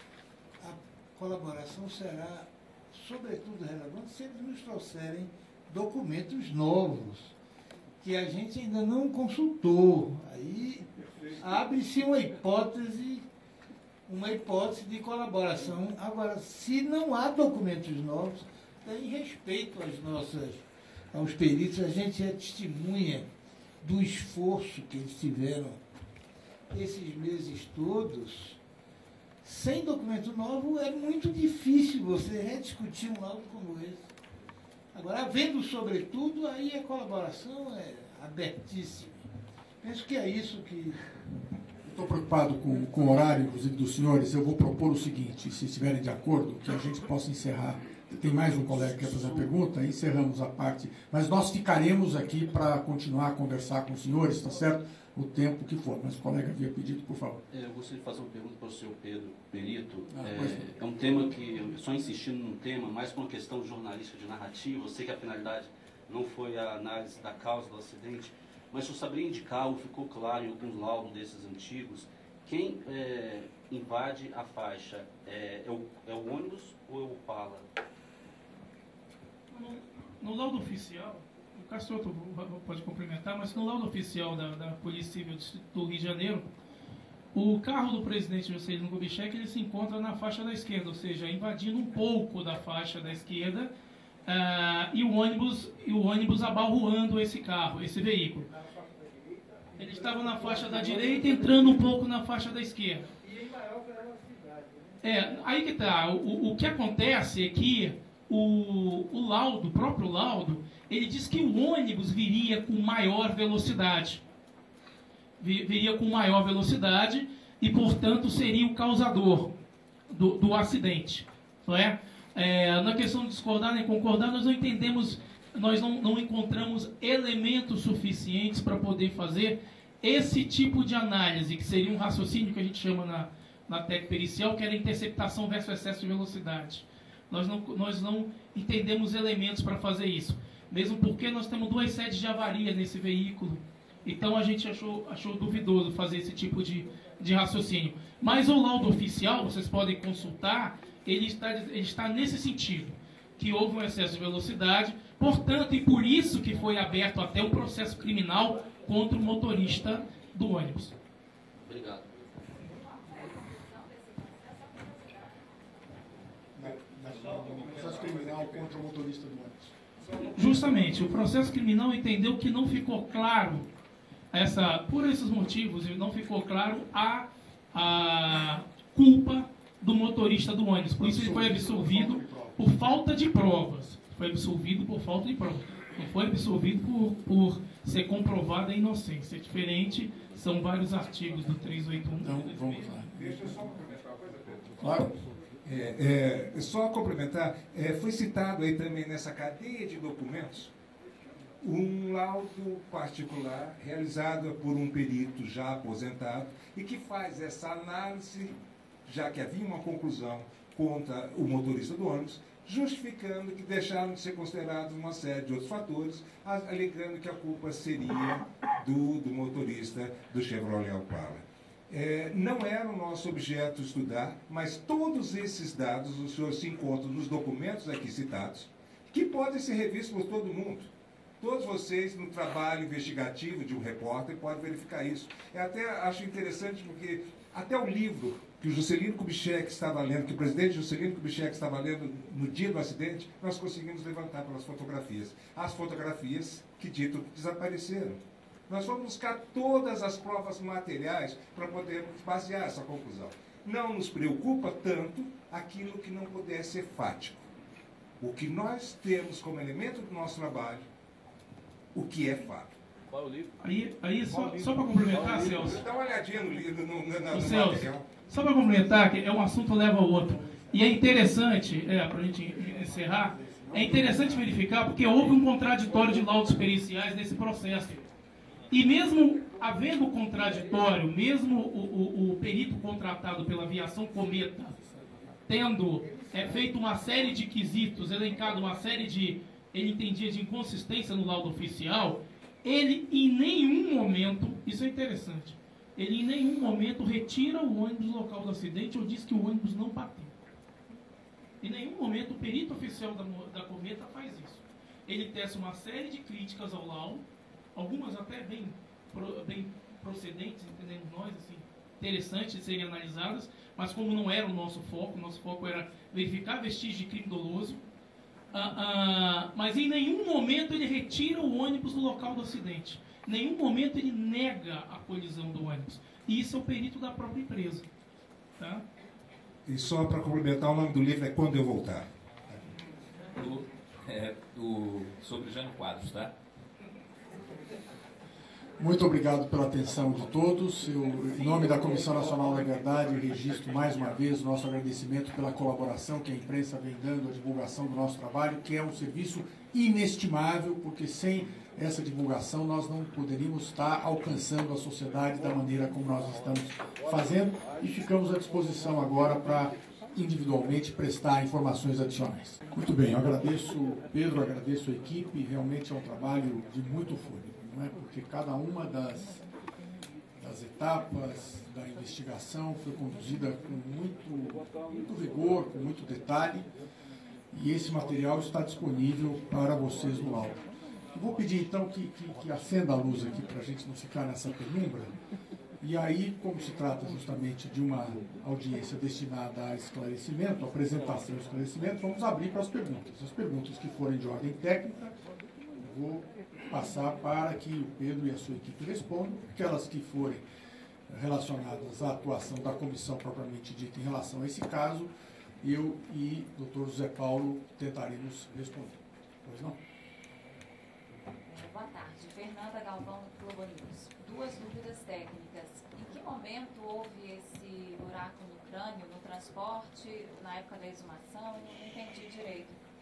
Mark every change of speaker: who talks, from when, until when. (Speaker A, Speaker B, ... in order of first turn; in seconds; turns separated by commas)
Speaker A: 0.6-7.3, Speaker A: 8.0-10.9, Speaker A: 11.4-13.2, Speaker A: 14.1-23.3, Speaker A: 23.8-25.8, Speaker A: 26.7-28.6, Speaker A: 29.4-34.1, Speaker A: 34.9-39.2, Speaker A: 39.8-41.0, Speaker B: 41.8-57.4, Speaker C: 48.9-49.5, Speaker C: 57.5-77.6, Speaker B: 60.1-60.7, Speaker D: 79.5-86.5, Speaker D: 87.3-93.7, Speaker D: 94.2-98.5, Speaker D: 99.7-103.1, Speaker D: 105.0-114.2, Speaker D: 115.4-119.5, Speaker D: 120.1-160.9, Speaker C: 161.6-162.1, Speaker E: 163.8-164.7, Speaker B: 166.5-169.7, Speaker F: 167.5-168.6, Speaker D: 170.2-173.7, Speaker D: 174.3-192.8, Speaker B: 180.9-182.6, Speaker B: 192.2-193.6, Speaker F: 193.2-195.0, Speaker B: 194.8-195.1, Speaker F: 195.6-200.7, Speaker F: 201.6-208.5, Speaker F: 209.0-257.5, Speaker F: 258.2-260.9, Speaker F: 261.9-262.7, Speaker C: 263.1-263.6, Speaker D: 263.6-265.8, Speaker C: 264.4-265.7, Speaker F: 265.3-268.1, Speaker D: 267.3-278.0, Speaker B: 270.2-271.2, Speaker B: 272.6-274.5, Speaker D: 278.7-284.7, Speaker B: 284.7-285.3, Speaker D: 285.5-300.3, Speaker D: 301.6-307.2, Speaker D: 307.7-317.8, Speaker D: 318.5-327.8, Speaker F: 329.6-332.1, Speaker G: 333.4-336.3, Speaker B: 338.8-369.4, Speaker B: 370.4-376.7, Speaker B: 377.5-380.6, Speaker B: 381.1-385.1, Speaker B: 385.8-395.1, Speaker B: 395.8-400.4, Speaker B: 401.1-409.8, Speaker E: 411.4-422.8